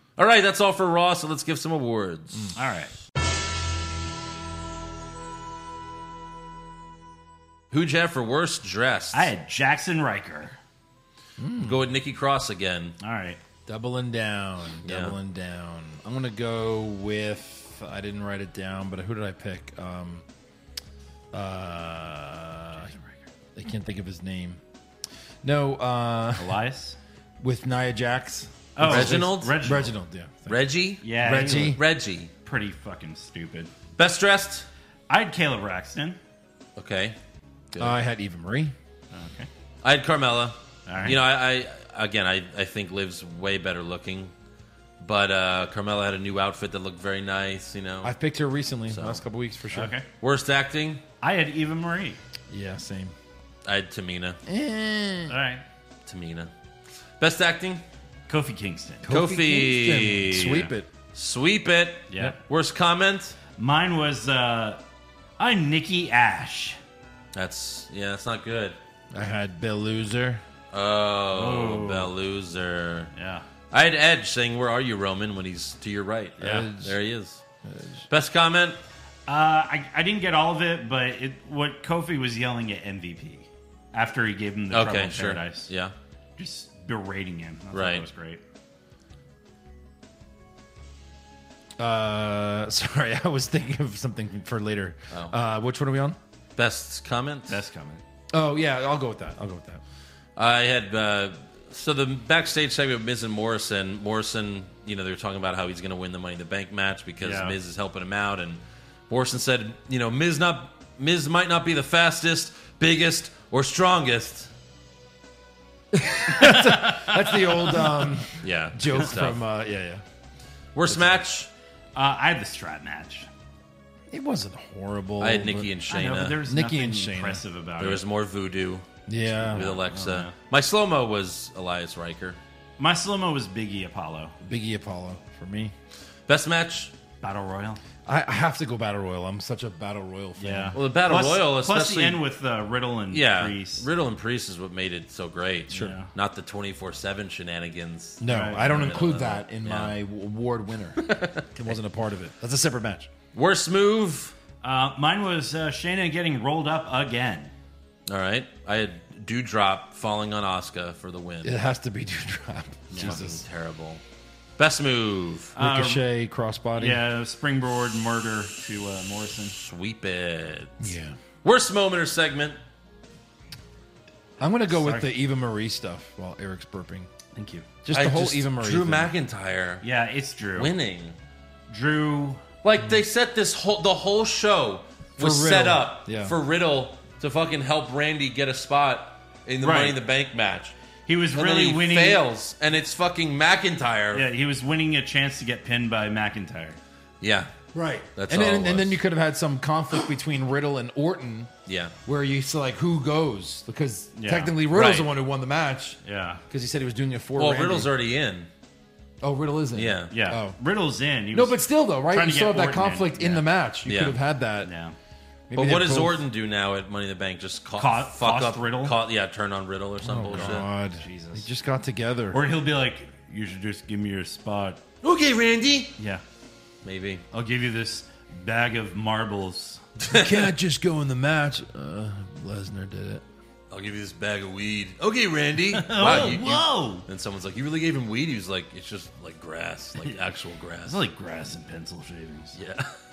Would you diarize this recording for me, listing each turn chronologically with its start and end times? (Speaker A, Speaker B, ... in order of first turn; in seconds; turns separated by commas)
Speaker A: 0.2-2.5, Speaker B: 2.5-2.9, Speaker A: 7.7-9.3, Speaker B: 9.1-10.6, Speaker C: 11.4-11.8, Speaker A: 11.6-12.9, Speaker B: 13.0-13.4, Speaker C: 13.7-20.2, Speaker A: 14.8-15.2, Speaker C: 21.3-22.9, Speaker B: 22.8-23.2, Speaker C: 23.6-24.6, Speaker C: 25.4-26.6, Speaker B: 26.4-27.0, Speaker C: 27.4-31.8, Speaker B: 28.8-29.9, Speaker A: 28.8-29.6, Speaker A: 30.5-32.3, Speaker B: 31.0-31.8, Speaker B: 32.4-33.7, Speaker A: 34.0-34.7, Speaker B: 35.1-36.2, Speaker A: 36.8-37.1, Speaker A: 37.7-38.0, Speaker C: 37.8-38.7, Speaker B: 39.1-39.5, Speaker A: 39.8-44.3, Speaker B: 40.9-41.2, Speaker A: 45.0-48.1, Speaker C: 48.0-49.9, Speaker A: 48.9-49.2, Speaker B: 49.7-50.0, Speaker A: 50.2-51.0, Speaker B: 51.2-52.2, Speaker C: 52.5-53.1, Speaker A: 53.6-54.4, Speaker C: 54.5-55.4, Speaker B: 55.3-55.6, Speaker A: 56.0-56.5, Speaker A: 57.2-57.8, Speaker B: 58.3-59.1, Speaker C: 59.0-60.9, Speaker A: 59.1-63.4, Speaker B: 62.1-62.4, Speaker B: 63.6-64.8, Speaker B: 65.4-66.8, Speaker A: 67.3-68.8, Speaker C: 69.1-70.4, Speaker A: 70.7-73.1, Speaker B: 71.3-72.1, Speaker B: 73.1-73.4, Speaker A: 73.7-77.4, Speaker C: 76.4-77.0, Speaker C: 77.6-78.0, Speaker A: 78.1-78.8, Speaker B: 79.3-85.7, Speaker A: 84.7-85.9, Speaker B: 86.4-88.4, Speaker A: 87.7-88.0, Speaker C: 91.8-96.2, Speaker A: 95.1-95.3, Speaker A: 96.6-97.5, Speaker B: 97.5-98.0, Speaker C: 98.3-99.8, Speaker A: 100.3-114.5, Speaker B: 107.2-107.5, Speaker C: 115.9-120.0, Speaker B: 116.3-117.7, Speaker A: 118.4-119.4, Speaker A: 120.7-121.5, Speaker C: 120.8-121.2, Speaker B: 121.9-123.3, Speaker C: 124.1-125.7, Speaker A: 125.2-126.4, Speaker B: 125.9-128.0, Speaker C: 126.4-127.4, Speaker A: 127.8-132.4, Speaker C: 129.1-129.7, Speaker B: 129.5-130.3, Speaker B: 132.8-134.3, Speaker C: 134.4-135.7, Speaker A: 136.3-136.9, Speaker B: 137.2-137.8, Speaker C: 138.1-140.8, Speaker B: 140.4-143.8, Speaker A: 140.7-142.2, Speaker A: 143.1-149.9, Speaker B: 145.7-146.1, Speaker C: 148.2-153.1, Speaker B: 148.3-148.8, Speaker A: 151.0-151.5, Speaker A: 153.3-154.3, Speaker B: 154.6-157.5, Speaker A: 158.1-161.6, Speaker C: 161.4-163.4, Speaker B: 162.9-163.2, Speaker A: 162.9-164.0, Speaker A: 164.6-165.5, Speaker B: 165.6-166.1, Speaker C: 165.6-167.0, Speaker B: 166.8-169.5, Speaker A: 169.6-170.9, Speaker C: 170.8-171.2, Speaker A: 171.4-172.6, Speaker C: 174.4-177.1, Speaker B: 174.7-175.1, Speaker B: 177.3-177.7, Speaker C: 177.8-179.1, Speaker A: 177.9-179.8, Speaker B: 179.8-180.7, Speaker A: 180.6-181.1, Speaker B: 181.7-182.4, Speaker A: 182.6-190.7, Speaker C: 185.2-186.3, Speaker B: 189.6-190.0, Speaker B: 191.1-192.2, Speaker A: 191.3-194.3, Speaker B: 194.1-196.8, Speaker A: 197.2-197.5, Speaker C: 197.7-201.5, Speaker A: 198.1-199.0, Speaker A: 201.7-201.9, Speaker C: 202.1-206.0, Speaker B: 204.1-204.6, Speaker A: 204.7-205.1, Speaker B: 206.0-206.4, Speaker C: 206.5-207.9, Speaker A: 207.4-208.5, Speaker C: 209.2-210.6, Speaker A: 209.7-210.1, Speaker B: 210.1-213.5, Speaker C: 211.3-214.7, Speaker A: 213.8-214.2, Speaker B: 214.6-214.9, Speaker C: 215.5-216.2, Speaker A: 215.5-220.7, Speaker B: 217.8-218.9, Speaker C: 220.0-222.4, Speaker B: 220.3-221.5, Speaker B: 222.3-224.8, Speaker A: 225.0-225.9, Speaker A: 226.8-227.2, Speaker B: 227.3-229.8, Speaker A: 230.0-230.5, Speaker C: 230.1-233.2, Speaker A: 233.7-241.0, Speaker B: 235.7-237.0, Speaker B: 240.8-242.6, Speaker A: 242.6-242.9